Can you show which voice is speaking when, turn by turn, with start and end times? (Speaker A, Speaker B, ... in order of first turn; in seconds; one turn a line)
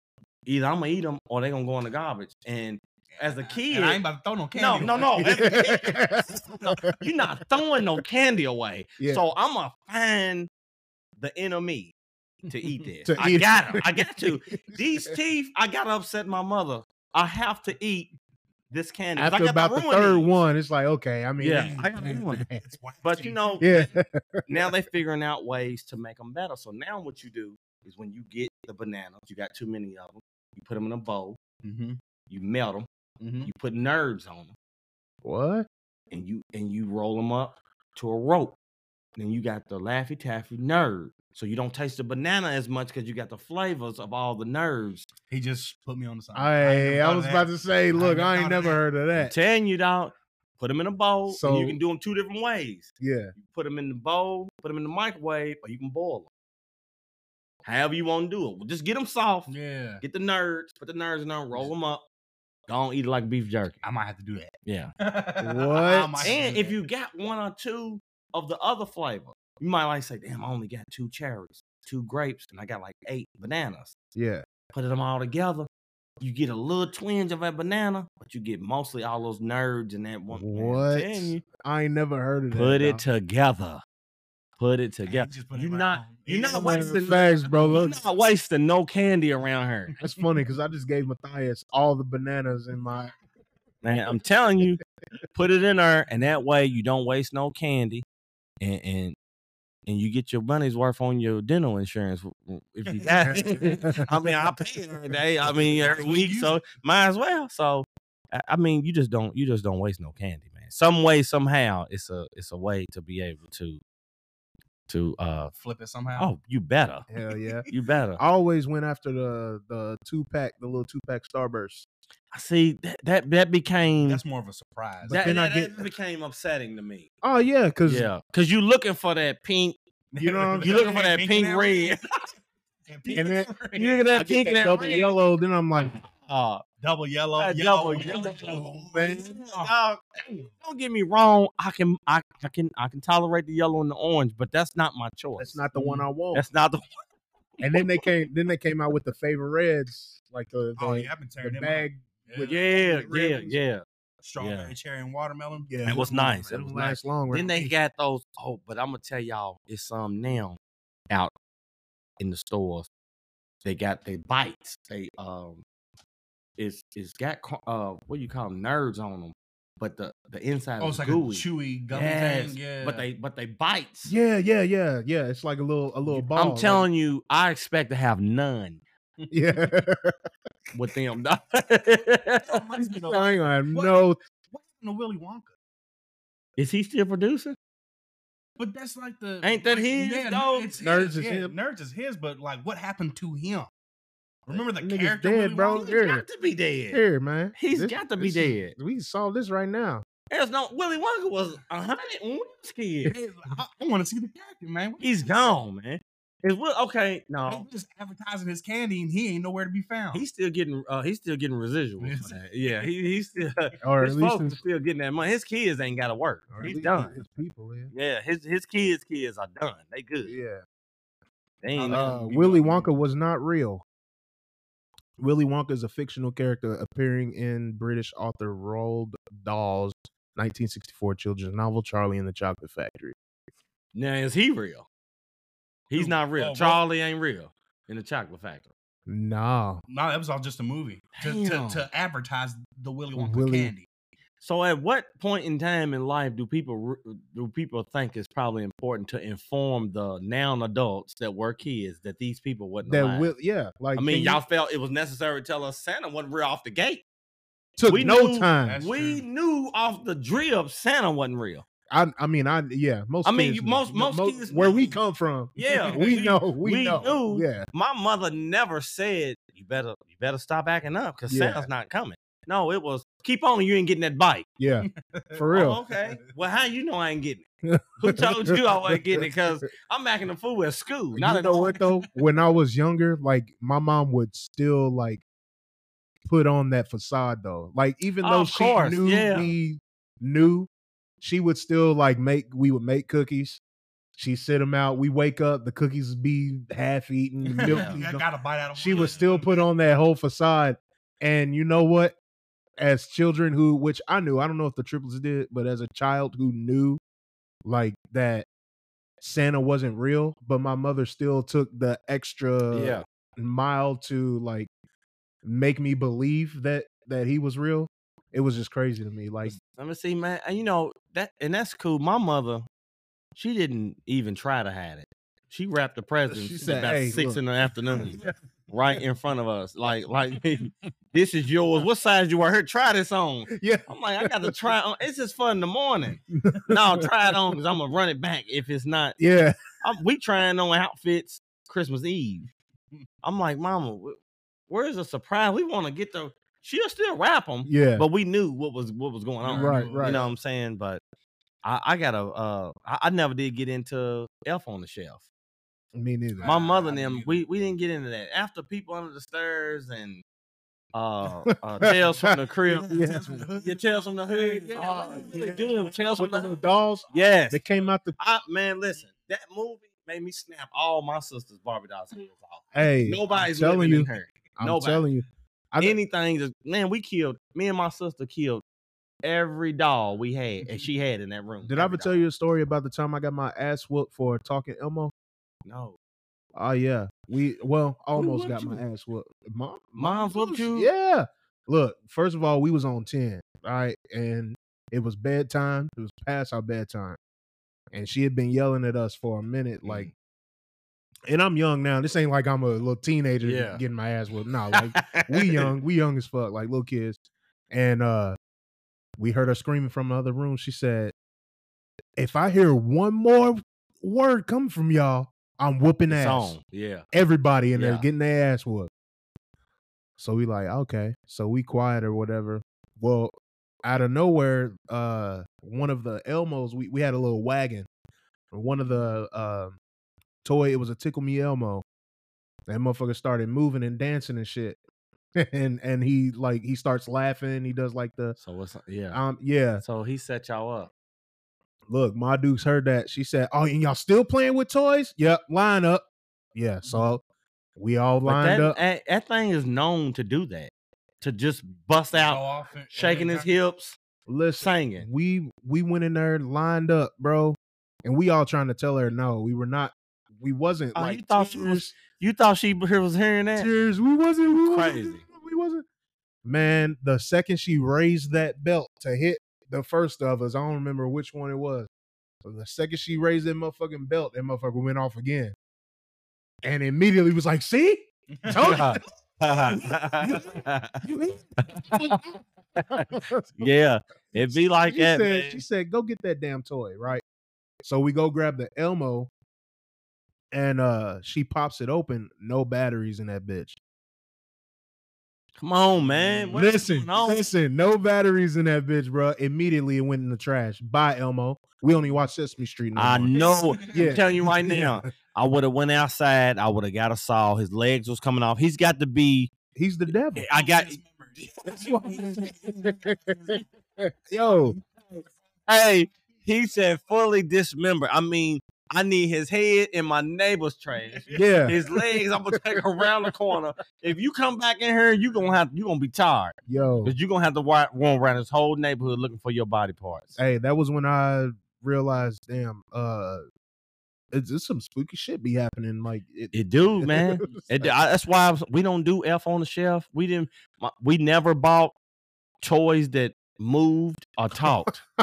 Speaker A: 0.5-4.0
Speaker B: 3.1-5.6
Speaker A: 4.5-10.5
Speaker C: 5.2-7.0
Speaker A: 11.2-11.9
Speaker A: 12.5-18.1
Speaker C: 13.0-15.1
Speaker A: 18.7-20.4
Speaker C: 19.1-22.6
Speaker A: 21.4-22.5
Speaker B: 22.1-23.7
Speaker A: 23.0-23.9
Speaker C: 23.6-24.5
Speaker A: 24.5-31.4
Speaker B: 31.6-32.0
Speaker A: 32.3-32.9
Speaker B: 33.2-33.5
Speaker A: 33.4-34.5
Speaker C: 35.2-35.7
Speaker A: 36.1-38.6
Speaker A: 39.1-45.1
Speaker B: 45.3-48.8
Speaker C: 46.3-49.3
Speaker A: 49.1-56.3
Speaker C: 51.3-51.8
Speaker C: 53.0-53.3
Speaker A: 57.6-62.0
Speaker B: 59.5-60.0
Speaker A: 62.7-63.8
Speaker B: 63.8-66.8
Speaker A: 64.6-64.9
Speaker C: 65.4-66.3
Speaker A: 66.2-73.9
Speaker C: 74.1-74.4
Speaker A: 74.7-75.7
Speaker A: 76.2-81.4
Speaker C: 80.3-83.0
Speaker A: 82.5-83.8
Speaker A: 84.6-89.9
Speaker B: 85.0-87.8
Speaker C: 86.5-88.0
Speaker C: 90.0-93.1
Speaker A: 93.8-94.8
Speaker A: 95.3-98.0
Speaker A: 98.6-99.2
Speaker A: 99.8-113.8
Speaker C: 103.6-104.0
Speaker B: 105.6-106.6
Speaker A: 114.9-115.5
Speaker B: 115.5-116.3
Speaker A: 116.2-117.0
Speaker C: 117.1-117.7
Speaker B: 117.4-117.8
Speaker A: 117.7-118.2
Speaker C: 118.2-121.8
Speaker A: 122.3-124.2
Speaker B: 124.0-125.3
Speaker C: 125.0-125.8
Speaker A: 125.1-127.0
Speaker C: 127.2-128.1
Speaker A: 127.8-129.8
Speaker B: 130.1-132.0
Speaker C: 130.2-130.9
Speaker A: 130.6-132.0
Speaker B: 132.9-134.1
Speaker C: 133.1-133.5
Speaker A: 133.7-135.1
Speaker C: 134.2-135.9
Speaker A: 136.2-136.6
Speaker B: 136.8-139.7
Speaker A: 137.4-145.6
Speaker C: 138.4-139.4
Speaker C: 145.4-146.4
Speaker B: 145.7-146.1
Speaker A: 146.3-146.9
Speaker C: 147.6-152.0
Speaker B: 150.8-153.6
Speaker A: 152.4-153.8
Speaker B: 154.2-156.0
Speaker A: 154.4-154.7
Speaker C: 155.7-157.7
Speaker A: 155.8-160.6
Speaker A: 162.2-162.9
Speaker A: 163.6-165.6
Speaker A: 166.6-174.1
Speaker B: 170.8-173.1
Speaker C: 174.1-176.9
Speaker A: 176.3-178.8
Speaker C: 179.3-180.1
Speaker A: 180.7-182.6
Speaker B: 182.4-185.5
Speaker C: 182.9-184.2
Speaker A: 186.6-187.6
Speaker B: 188.6-193.7
Speaker A: 189.4-190.7
Speaker C: 190.8-191.5
Speaker B: 194.5-195.9
Speaker C: 194.5-196.2
Speaker A: 195.7-197.0
Speaker C: 196.9-200.0
Speaker A: 197.6-198.7
Speaker A: 200.3-203.1
Speaker B: 203.1-205.0
Speaker A: 205.0-207.7
Speaker B: 207.4-210.2
Speaker A: 210.1-217.2
Speaker B: 212.0-212.8
Speaker C: 213.8-214.6
Speaker C: 216.5-217.9
Speaker A: 217.9-220.3
Speaker C: 220.2-220.6
Speaker A: 221.6-222.1
Speaker B: 221.7-223.0
Speaker C: 221.9-223.8
Speaker C: 225.2-233.1
Speaker A: 233.9-234.9
Speaker A: 235.9-238.7
Speaker B: 235.9-236.8
Speaker C: 239.1-239.8
Speaker B: 239.9-243.9
Speaker A: 241.2-241.9
Speaker C: 243.1-243.7
Speaker A: 244.4-253.3
Speaker C: 252.8-254.4
Speaker A: 253.9-257.0
Speaker C: 257.8-258.8
Speaker A: 257.9-261.6
Speaker B: 258.6-259.2
Speaker C: 261.9-267.6
Speaker A: 263.2-264.9
Speaker A: 265.6-274.4
Speaker B: 265.6-266.4
Speaker C: 271.3-271.7
Speaker C: 274.6-275.8
Speaker B: 274.8-276.1
Speaker A: 275.5-277.4
Speaker C: 277.6-279.3
Speaker A: 278.0-281.7
Speaker C: 281.1-285.2
Speaker C: 286.2-290.7
Speaker A: 288.2-289.5
Speaker C: 291.2-293.6
Speaker C: 294.2-302.2
Speaker B: 297.5-299.6
Speaker A: 297.6-298.0
Speaker C: 302.8-307.0
Speaker C: 307.6-308.5
Speaker C: 309.2-314.7
Speaker A: 312.7-313.0
Speaker C: 315.4-319.6
Speaker A: 319.6-322.7
Speaker A: 323.4-328.2
Speaker C: 326.3-327.4
Speaker C: 327.9-328.2
Speaker A: 328.7-339.2
Speaker C: 333.5-334.5
Speaker C: 336.3-337.0
Speaker C: 339.2-339.6
Speaker A: 339.8-342.4
Speaker A: 343.2-344.2
Speaker A: 344.7-351.0
Speaker C: 347.6-348.0
Speaker B: 349.4-350.3
Speaker C: 349.5-350.2
Speaker A: 351.6-355.3
Speaker C: 355.9-356.5
Speaker B: 356.4-357.4
Speaker A: 356.4-360.2
Speaker A: 360.9-362.9
Speaker C: 361.8-363.4
Speaker B: 362.7-365.4
Speaker A: 363.6-366.5
Speaker C: 364.7-368.1
Speaker A: 367.1-367.6
Speaker A: 368.2-375.0
Speaker C: 372.7-376.0
Speaker A: 375.8-378.6
Speaker A: 379.2-382.2
Speaker C: 381.6-385.1
Speaker A: 385.6-386.0
Speaker C: 386.5-397.2
Speaker A: 388.1-388.8
Speaker A: 389.9-390.9
Speaker C: 397.9-400.1
Speaker A: 399.8-400.1
Speaker C: 401.3-407.2
Speaker A: 403.4-403.8
Speaker A: 404.7-405.7
Speaker C: 407.7-408.4
Speaker C: 409.2-411.1
Speaker C: 412.2-416.6
Speaker A: 416.1-417.1
Speaker C: 417.1-418.9
Speaker A: 417.7-418.1
Speaker C: 420.2-427.9
Speaker C: 428.5-429.8
Speaker C: 430.4-431.8
Speaker C: 432.7-434.8
Speaker C: 435.4-438.4
Speaker A: 438.4-439.2
Speaker C: 439.1-439.8
Speaker A: 439.8-440.9
Speaker C: 441.9-447.2
Speaker C: 447.8-448.8
Speaker A: 448.2-452.4
Speaker B: 452.1-453.5
Speaker A: 452.9-454.0
Speaker C: 454.3-461.9
Speaker A: 454.6-455.1
Speaker A: 460.9-463.7
Speaker C: 463.6-465.8
Speaker A: 464.6-465.2
Speaker C: 466.4-471.9
Speaker C: 472.4-475.5
Speaker C: 476.6-479.0
Speaker B: 478.4-478.9
Speaker A: 478.5-481.0
Speaker C: 480.2-482.3
Speaker A: 481.7-482.2
Speaker A: 482.8-485.6
Speaker C: 482.9-483.7
Speaker C: 484.4-487.2
Speaker C: 487.8-489.3
Speaker C: 490.5-493.8
Speaker A: 495.6-497.5
Speaker C: 496.5-505.0
Speaker A: 502.9-509.5
Speaker B: 503.3-504.4
Speaker C: 509.7-510.4
Speaker A: 510.3-511.0
Speaker B: 510.5-513.6
Speaker A: 511.7-512.2
Speaker C: 511.8-514.8
Speaker A: 515.7-530.4
Speaker B: 521.0-521.8
Speaker C: 521.3-522.2
Speaker C: 522.7-523.3
Speaker C: 526.7-527.1
Speaker C: 530.4-533.4
Speaker C: 534.3-537.9
Speaker A: 536.5-542.0
Speaker A: 542.6-545.0